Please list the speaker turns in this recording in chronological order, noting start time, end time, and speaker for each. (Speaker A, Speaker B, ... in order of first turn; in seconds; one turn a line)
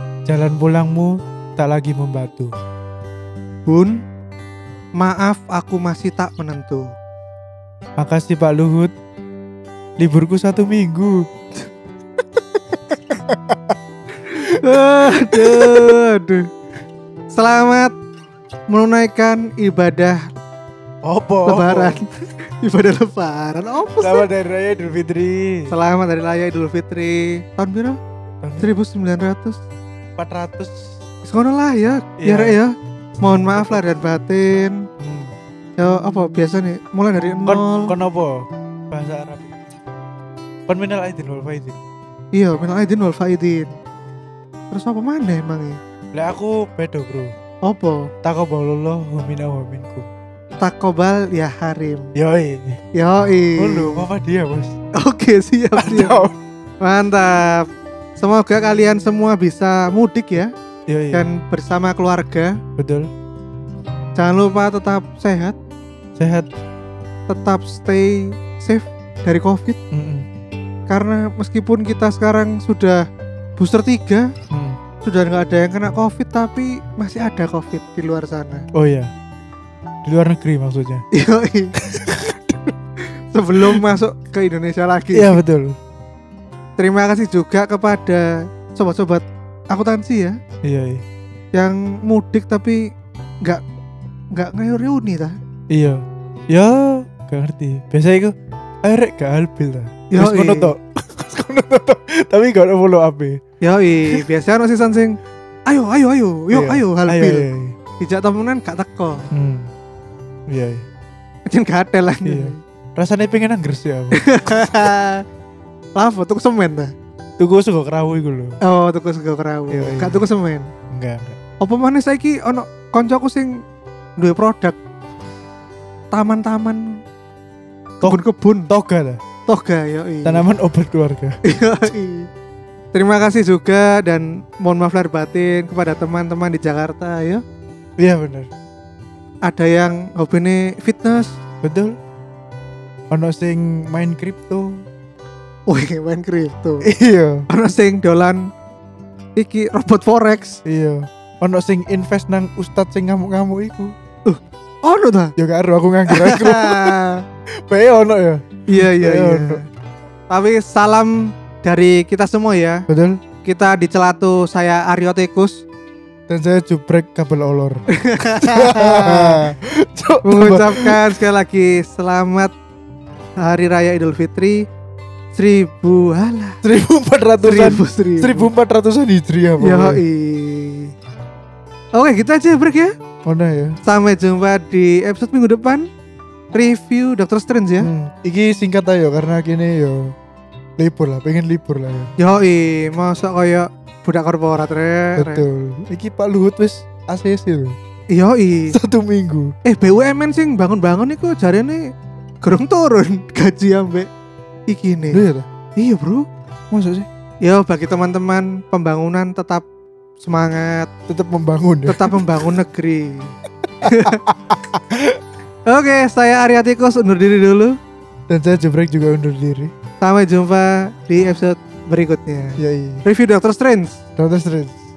Speaker A: 0.2-2.5
Speaker B: 3.7-4.0
Speaker B: 5.0-6.9
Speaker A: 8.0-8.9
Speaker A: 10.0-11.2
Speaker A: 13.1-13.6
Speaker B: 14.2-16.4
Speaker A: 14.7-16.0
Speaker B: 17.3-17.9
Speaker B: 18.7-20.2
Speaker A: 21.0-22.0
Speaker B: 21.4-22.1
Speaker B: 22.6-24.3
Speaker A: 24.0-25.7
Speaker B: 25.7-28.0
Speaker A: 28.4-28.7
Speaker B: 28.6-29.6
Speaker A: 30.2-30.9
Speaker B: 31.2-34.8
Speaker A: 32.2-32.6
Speaker A: 35.0-35.3
Speaker B: 35.8-37.9
Speaker A: 37.5-39.6
Speaker A: 40.7-41.8
Speaker B: 42.3-43.7
Speaker B: 44.7-45.8
Speaker A: 46.1-47.3
Speaker B: 47.6-48.1
Speaker A: 48.2-50.1
Speaker B: 50.6-52.1
Speaker A: 52.1-52.8
Speaker B: 52.9-54.1
Speaker A: 53.6-54.7
Speaker B: 55.0-56.3
Speaker A: 55.8-56.3
Speaker B: 56.8-57.6
Speaker B: 58.2-60.5
Speaker A: 60.9-61.2
Speaker B: 61.1-62.5
Speaker A: 62.8-63.1
Speaker B: 64.2-65.5
Speaker A: 66.2-66.5
Speaker B: 67.3-69.8
Speaker A: 69.9-70.2
Speaker B: 70.9-73.0
Speaker B: 73.6-74.3
Speaker A: 74.5-74.8
Speaker B: 75.0-78.6
Speaker A: 78.7-79.1
Speaker A: 80.0-81.0
Speaker B: 81.1-81.7
Speaker A: 81.8-82.7
Speaker B: 83.0-85.4
Speaker A: 85.1-85.8
Speaker B: 86.8-90.3
Speaker A: 90.6-91.0
Speaker B: 91.5-92.8
Speaker B: 94.3-95.3
Speaker A: 95.7-103.4
Speaker B: 100.1-100.7
Speaker B: 103.6-105.2
Speaker B: 105.7-107.5
Speaker A: 106.5-107.7
Speaker B: 108.0-109.3
Speaker A: 109.3-109.7
Speaker A: 110.5-110.8
Speaker B: 111.5-112.6
Speaker A: 112.2-114.2
Speaker B: 114.1-115.2
Speaker B: 116.0-116.9
Speaker A: 117.4-118.6
Speaker B: 118.6-120.7
Speaker A: 119.7-120.2
Speaker A: 120.9-121.4
Speaker B: 121.6-123.5
Speaker B: 124.2-124.8
Speaker B: 126.1-126.8
Speaker A: 128.0-129.2
Speaker B: 128.0-128.7
Speaker B: 129.5-130.5
Speaker A: 130.2-131.4
Speaker B: 131.4-132.3
Speaker B: 132.9-137.4
Speaker A: 138.0-138.5
Speaker B: 139.4-141.4
Speaker A: 141.6-141.9
Speaker A: 143.1-144.8
Speaker B: 145.7-146.9
Speaker A: 146.8-147.4
Speaker B: 147.5-148.4
Speaker B: 149.4-150.6
Speaker A: 150.6-153.9
Speaker B: 154.2-155.3
Speaker A: 155.4-156.9
Speaker B: 156.1-157.2
Speaker A: 157.7-159.6
Speaker B: 158.7-159.6
Speaker B: 160.3-162.9
Speaker A: 162.9-163.2
Speaker B: 163.4-165.6
Speaker A: 166.3-167.8
Speaker B: 167.9-169.5
Speaker A: 168.4-171.2
Speaker B: 170.2-172.5
Speaker B: 173.4-174.6
Speaker B: 175.3-176.6
Speaker A: 176.6-180.0
Speaker B: 177.4-178.5
Speaker B: 179.6-180.9
Speaker B: 181.9-182.9
Speaker A: 183.2-183.8
Speaker B: 183.8-185.9
Speaker B: 186.5-187.9
Speaker A: 187.8-190.1
Speaker A: 190.8-192.1
Speaker B: 192.2-195.4
Speaker A: 195.2-197.8
Speaker B: 198.1-198.7
Speaker A: 198.7-199.5
Speaker B: 199.6-201.8
Speaker B: 202.4-204.1
Speaker B: 204.7-205.2
Speaker A: 205.1-205.5
Speaker B: 205.8-206.2
Speaker A: 206.7-207.1
Speaker B: 207.4-209.7
Speaker B: 210.2-210.9
Speaker A: 211.1-212.3
Speaker B: 211.8-214.2
Speaker A: 213.8-215.2
Speaker B: 215.7-217.7
Speaker A: 218.3-219.7
Speaker B: 220.0-224.0
Speaker A: 222.6-223.0
Speaker A: 224.2-224.8